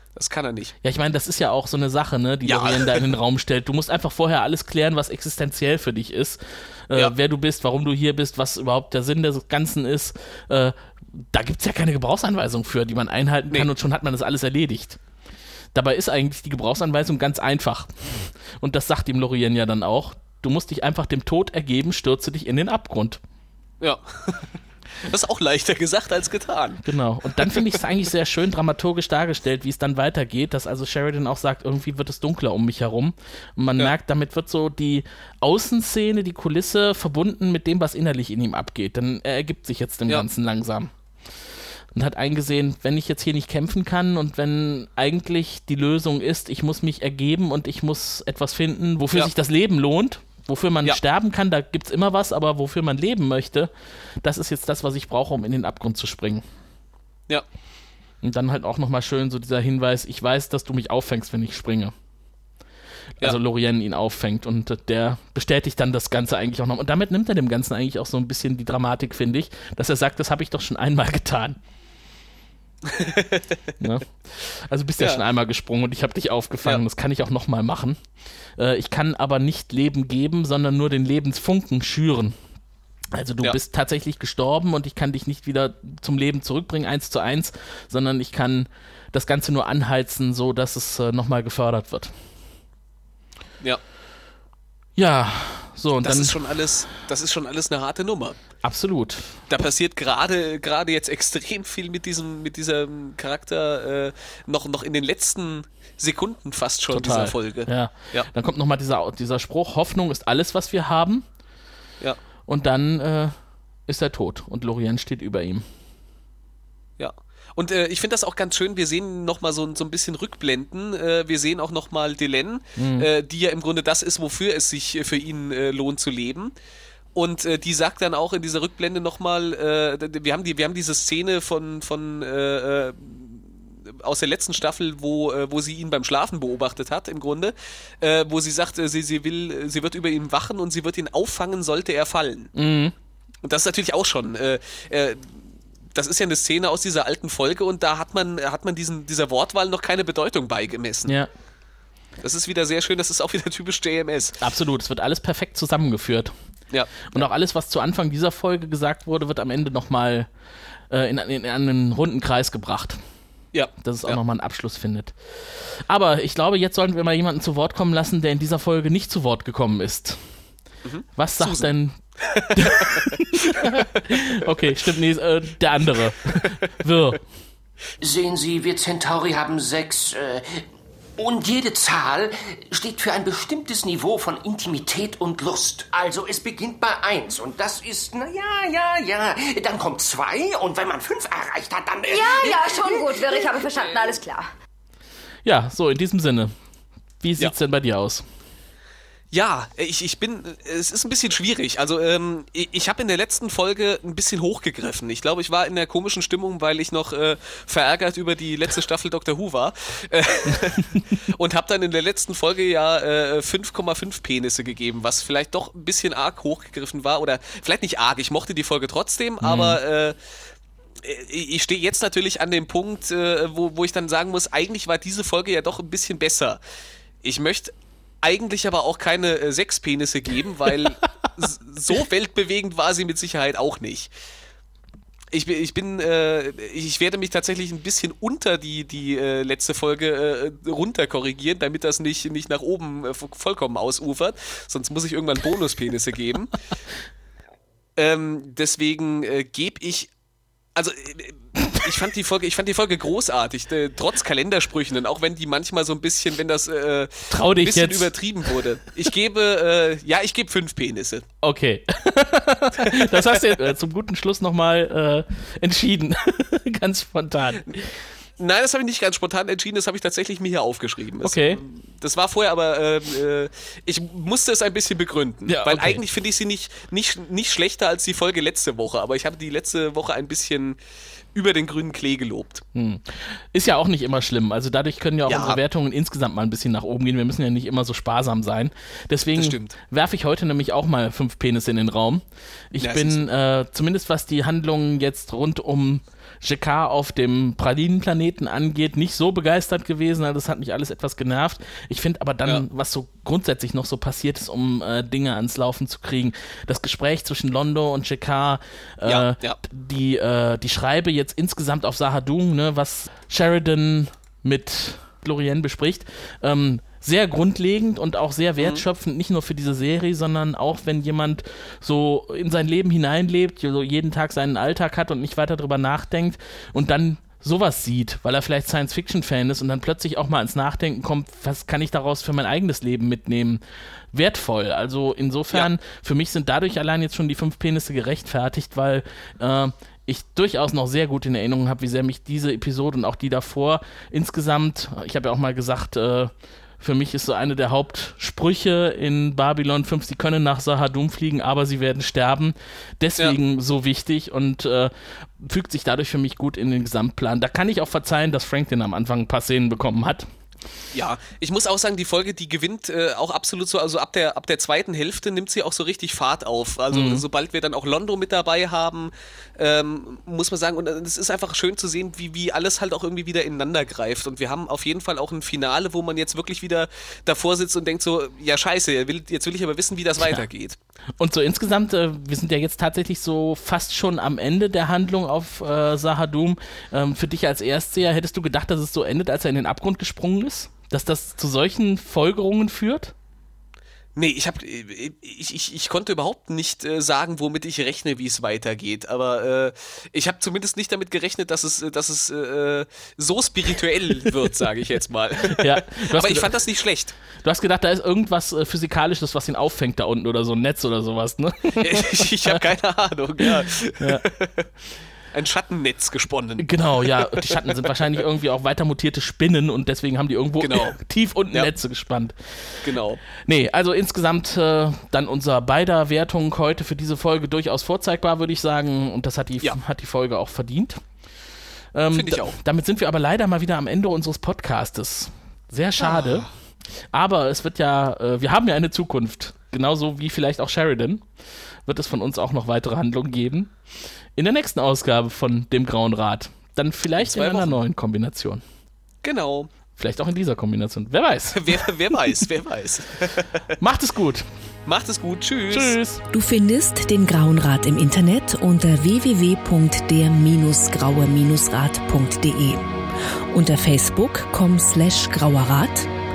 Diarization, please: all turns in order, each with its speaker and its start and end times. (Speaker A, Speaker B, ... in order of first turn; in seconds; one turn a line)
Speaker A: 0.1-0.7
Speaker B: 0.8-15.0
Speaker A: 2.4-3.1
Speaker B: 15.7-23.2
Speaker A: 23.8-26.8
Speaker B: 26.8-40.9
Speaker A: 27.3-27.8
Speaker B: 41.9-53.7
Speaker B: 54.2-56.4
Speaker B: 58.2-61.9
Speaker B: 63.2-71.6
Speaker A: 72.8-73.7
Speaker B: 73.8-78.0
Speaker B: 78.6-82.3
Speaker B: 83.1-92.1
Speaker B: 95.0-96.4
Speaker A: 96.0-98.4
Speaker B: 98.6-99.3
Speaker A: 99.5-108.3
Speaker B: 106.9-111.2
Speaker B: 112.5-113.3
Speaker B: 113.9-115.6
Speaker A: 117.0-126.5
Speaker B: 122.8-123.1
Speaker A: 127.1-142.5
Speaker B: 142.5-142.9
Speaker A: 143.4-145.4
Speaker A: 145.9-151.2
Speaker A: 152.2-154.4
Speaker B: 154.4-156.3
Speaker A: 156.7-157.2
Speaker B: 157.1-160.3
Speaker B: 160.9-163.0
Speaker A: 163.5-164.2
Speaker B: 163.8-170.2
Speaker A: 170.8-173.8
Speaker B: 171.2-172.0
Speaker B: 172.5-177.2
Speaker C: 178.0-180.6
Speaker C: 181.2-194.1
Speaker D: 192.1-194.5
Speaker B: 195.4-196.5
Speaker B: 197.2-198.2
Speaker A: 199.3-220.2
Speaker B: 219.4-219.8
Speaker A: 221.0-226.6
Speaker A: 227.2-234.1
Speaker A: 235.3-246.5
Speaker A: 247.9-250.1
Speaker A: 250.7-261.2
Speaker B: 257.3-258.1
Speaker B: 261.4-267.9
Speaker A: 262.8-263.7
Speaker A: 268.4-280.8
Speaker B: 271.2-271.6
Speaker B: 275.5-276.0
Speaker A: 281.3-282.6
Speaker B: 282.7-333.6
Speaker A: 285.2-285.6
Speaker A: 289.3-289.8
Speaker A: 292.8-293.2
Speaker A: 309.0-309.6
Speaker B: 334.1-360.3
Speaker A: 360.9-380.8
Speaker B: 366.9-367.2
Speaker B: 381.2-393.1
Speaker A: 394.1-407.1
Speaker B: 405.4-406.5
Speaker B: 407.4-412.6
Speaker A: 411.8-414.7
Speaker B: 414.0-414.2
Speaker A: 415.3-418.0
Speaker B: 416.6-422.8
Speaker A: 420.6-421.0
Speaker A: 422.8-423.2
Speaker B: 423.4-431.0
Speaker B: 431.9-436.5
Speaker A: 432.1-432.6
Speaker A: 436.0-436.5
Speaker B: 437.1-441.2
Speaker B: 441.9-443.7
Speaker B: 444.4-448.6
Speaker A: 447.2-447.8
Speaker A: 449.2-449.7
Speaker B: 450.0-451.8
Speaker A: 451.5-453.6
Speaker B: 453.8-454.5
Speaker A: 454.9-456.0
Speaker B: 455.7-456.2
Speaker E: 456.3-462.9
Speaker E: 463.5-466.1